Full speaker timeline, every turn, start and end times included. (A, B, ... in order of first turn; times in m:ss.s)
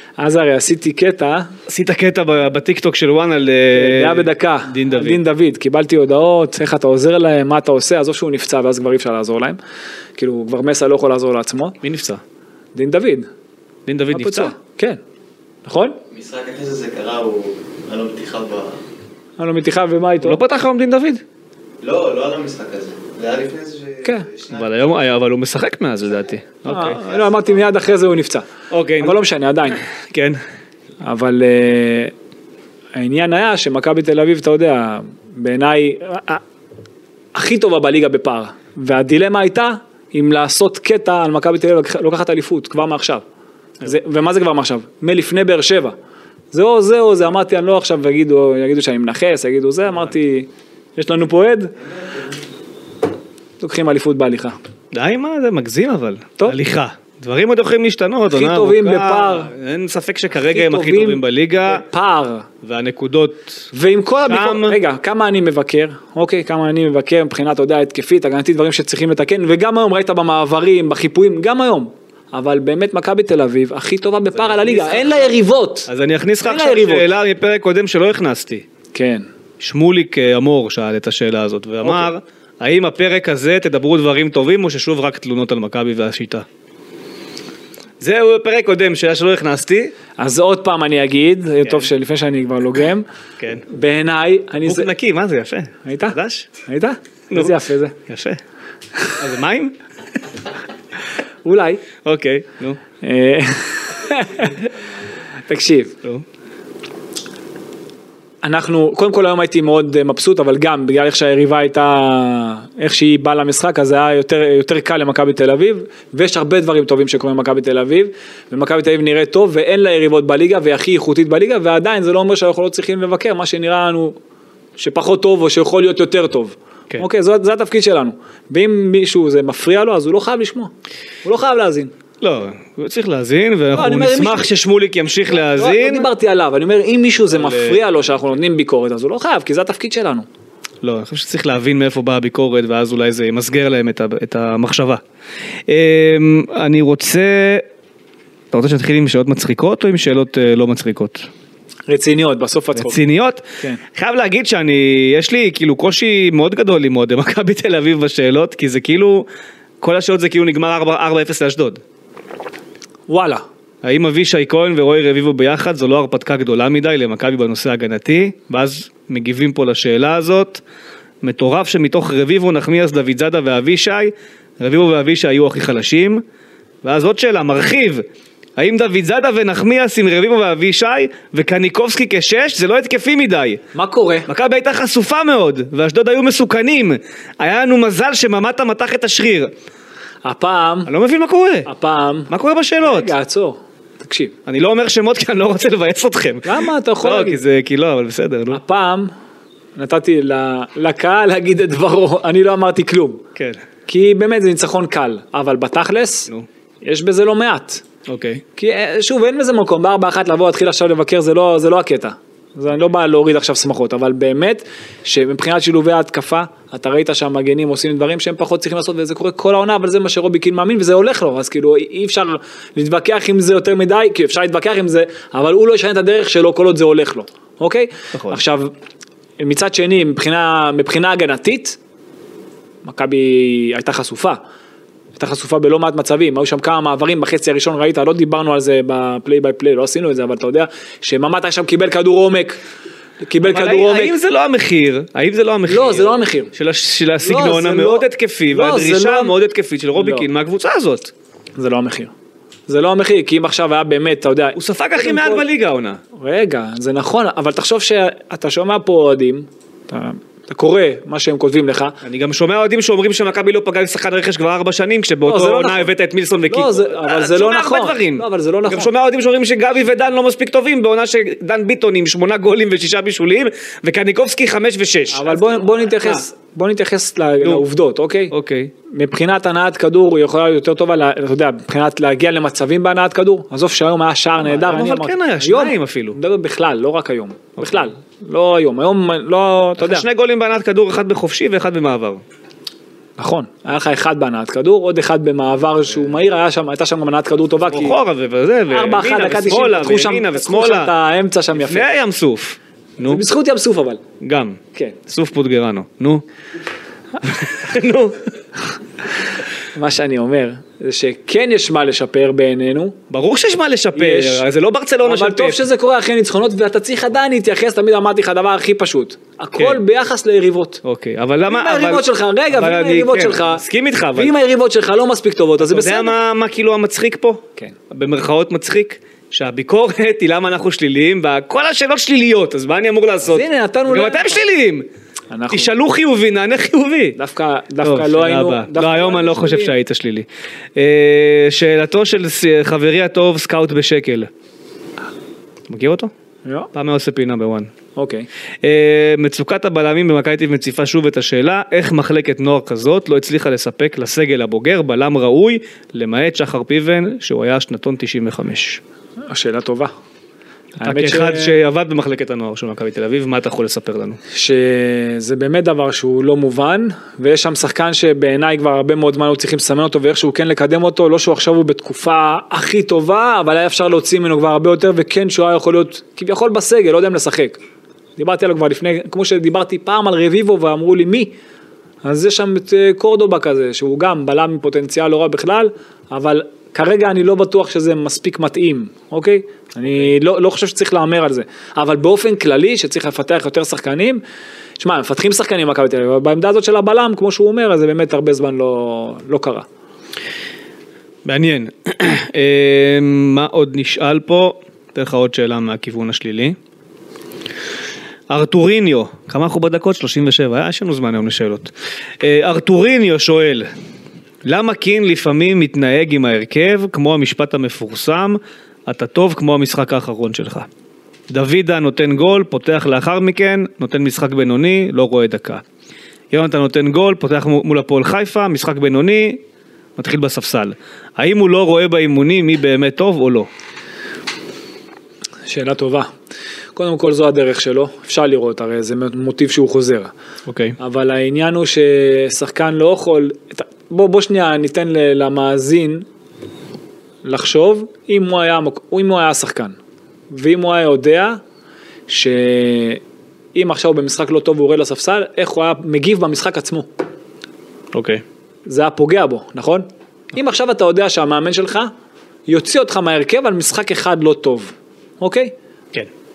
0:00.2-0:01.6 A
0:01.7-0:05.2 B
0:03.7-0:09.6 A
0:10.2-0:11.8 A
0:11.8-0:12.2 B
0:12.7-0:13.3 A
0:13.8-0:14.5 B
0:14.1-0:15.0 A
0:15.6-0:16.0 A
0:16.1-0:18.7 C
0:19.4-0:20.4 A
0:20.2-0:21.2 B
0:21.8-0:23.8 C
0:24.0-0:24.3 A
0:24.4-0:27.0 B
0:26.6-0:28.5 A
0:28.7-0:29.2 B
0:29.0-0:29.8 A
0:29.9-0:30.4 B
0:31.0-0:32.1 A
0:32.9-0:36.4 A
0:37.3-0:43.2 A
0:43.8-0:46.0 A
0:46.5-0:51.8 A
0:53.6-0:54.6 A
0:54.9-1:01.8 B
0:58.3-0:59.5 A
1:00.5-1:02.5 A
1:02.6-1:03.7 B
1:03.7-1:15.9 A
1:04.2-1:04.8 B
1:14.3-1:15.3 B
1:15.9-1:18.6 B
1:16.4-1:17.1 A
1:18.9-1:19.2 A
1:19.6-1:26.4 B
1:21.8-1:22.1 A
1:28.0-1:29.9 B
1:30.2-1:33.0 A
1:33.4-1:33.6 B
1:33.7-1:34.9 A
1:34.6-1:36.5 B
1:35.8-1:37.9 A
1:37.3-1:38.4 B
1:39.2-1:39.8 B
1:41.4-1:41.8 A
1:42.0-1:42.8 B
1:43.0-1:44.6 A
1:45.5-1:46.0 A
1:48.4-2:04.2 A
2:04.8-2:10.7 A
2:11.2-2:11.9 A
2:12.2-2:16.1 B
2:13.7-2:14.5 A
2:15.4-2:20.2 A
2:17.3-2:17.8 B
2:20.8-2:25.0 B
2:25.7-2:27.6 B
2:28.5-2:31.3 B
2:31.9-2:33.0 A
2:32.7-2:39.2 B
2:39.8-2:41.8 B
2:43.1-2:43.4 A
2:43.8-2:50.6 B
2:51.2-2:56.2 B
2:56.8-2:58.0 B
2:58.6-3:03.6 B
3:03.7-3:04.3 A
3:04.2-3:09.5 B
3:10.2-3:10.9 A
3:10.8-3:11.7 B
3:11.6-3:14.3 A
3:12.3-3:13.1 B
3:14.4-3:18.6 B
3:16.4-3:17.4 A
3:18.5-3:19.1 A
3:19.8-3:23.2 A
3:23.3-3:23.6 B
3:23.9-3:26.3 A
3:26.8-3:27.8 A
3:28.1-3:28.4 B
3:28.6-3:48.7 A
3:48.1-3:48.4 B
3:49.4-3:51.8 A
3:52.8-3:54.4 A
3:55.2-4:02.6 A
4:03.2-4:04.2 A
4:03.4-4:11.1 B
4:05.7-4:06.5 A
4:07.2-4:09.3 A
4:10.0-4:10.3 A
4:11.6-4:12.1 A
4:12.7-4:15.4 A
4:14.6-4:16.0 B
4:16.1-4:22.0 A
4:22.0-4:36.2 B
4:25.2-4:25.9 A
4:26.5-4:28.9 A
4:35.1-4:38.3 A
4:37.4-4:37.6 B
4:38.3-4:38.7 B
4:38.9-4:50.0 A
4:44.4-4:46.2 B
4:47.6-4:47.9 B
4:49.8-4:52.2 B
4:53.2-4:58.0 A
4:57.6-5:00.9 B
4:58.7-5:01.9 A
5:01.5-5:03.2 B
5:03.0-5:04.0 A
5:04.2-5:06.2 B
5:07.2-5:08.2 B
5:09.7-5:13.0 A
5:13.1-5:15.6 B
5:13.9-5:14.4 A
5:15.0-5:20.8 A
5:19.5-5:19.8 B
5:20.8-5:24.3 B
5:21.4-5:23.6 A
5:24.1-5:26.1 A
5:25.6-5:34.8 B
5:33.2-5:34.4 A
5:35.3-5:35.7 A
5:35.5-5:37.2 B
5:37.2-5:39.7 A
5:37.8-5:44.3 B
5:45.7-5:46.1 B
5:46.7-5:47.7 B
5:48.0-5:48.3 A
5:48.6-5:58.8 B
5:59.3-5:59.9 A
6:00.8-6:01.6 A
6:00.8-6:04.2 B
6:04.3-6:17.6 A
6:18.2-6:21.3 A
6:22.0-6:34.2 A
6:34.8-6:39.6 A
6:41.2-6:46.6 B
6:48.3-6:53.7 B
6:54.4-7:00.7 B
7:01.3-7:05.6 B
7:06.3-7:09.4 B
7:10.0-7:13.5 B
7:15.5-7:16.1 A
7:16.7-7:20.1 A
7:20.5-7:20.8 B
7:20.8-7:26.0 A
7:27.2-7:29.7 A
7:30.3-7:31.4 A
7:32.1-7:33.0 A
7:33.5-7:36.9 A
7:37.9-7:38.2 B
7:38.6-7:41.9 A
7:42.5-7:45.5 A